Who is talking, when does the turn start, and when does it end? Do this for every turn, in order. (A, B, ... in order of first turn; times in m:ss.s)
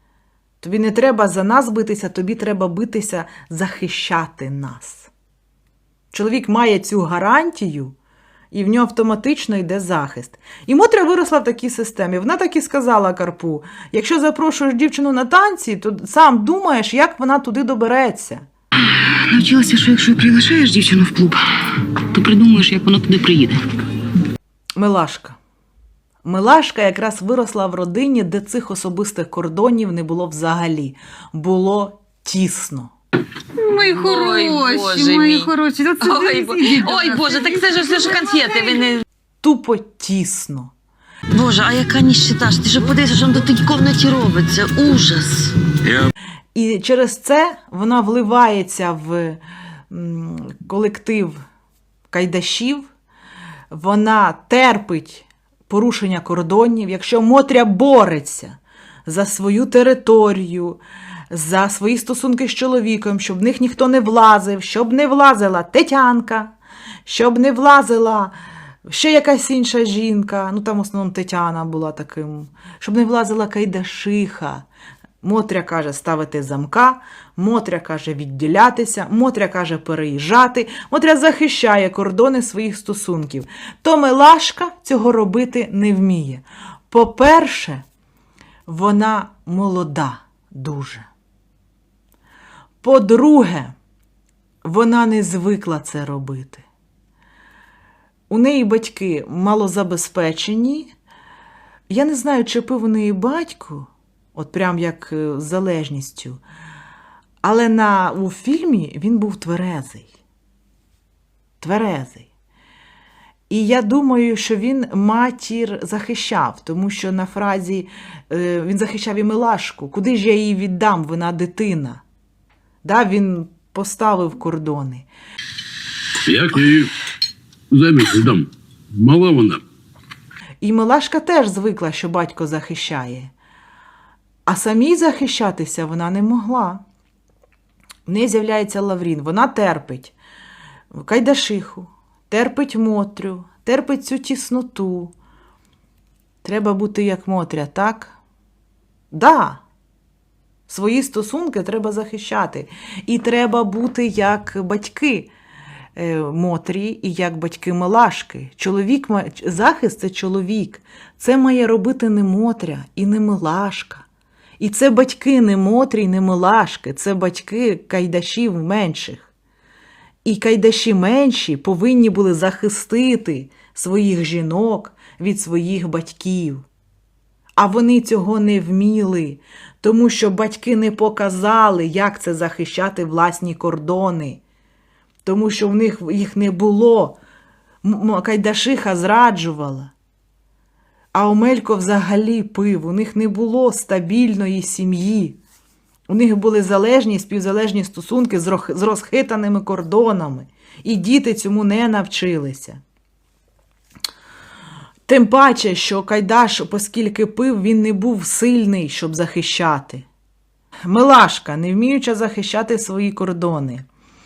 0:00.6-0:05.1 A
0:06.1-0:07.9 A
0:08.5-0:18.4 A
0:19.3-0:21.4 B
0:22.1-0:23.6 B
0:24.8-0:25.4 A
0:26.2-0:32.9 A
0:33.6-0:38.9 C
0:33.9-0:39.0 D
0:39.4-0:40.7 A
0:41.3-0:45.5 D
0:46.5-0:51.4 A
0:52.1-0:52.9 A
0:53.7-1:00.8 A
1:01.3-1:06.5 A
1:07.0-1:08.3 A
1:08.9-1:14.6 A
1:15.2-1:27.8 A
1:28.7-1:31.0 A
1:32.8-1:33.7 A
1:34.6-1:36.6 A
1:38.3-1:40.9 A
1:41.9-1:46.4 A
1:47.4-1:50.1 A
1:51.6-1:52.3 A
1:53.5-2:02.0 A
2:02.8-2:05.0 A
2:06.2-2:06.9 E
2:07.7-2:09.6 E
2:10.6-2:13.3 A
2:14.5-2:16.8 A
2:18.1-2:20.1 A
2:20.9-2:25.1 A
2:26.4-2:28.1 A
2:29.1-2:29.6 A
2:30.7-2:35.3 A
2:36.0-2:44.0 A
2:44.6-2:49.3 A
2:50.2-2:56.7 A
2:57.6-3:04.4 A
3:05.2-3:07.2 A
3:07.8-3:09.9 A
3:11.1-3:15.4 A
3:16.1-3:22.8 A
3:25.1-3:30.0 A
3:30.8-3:33.8 A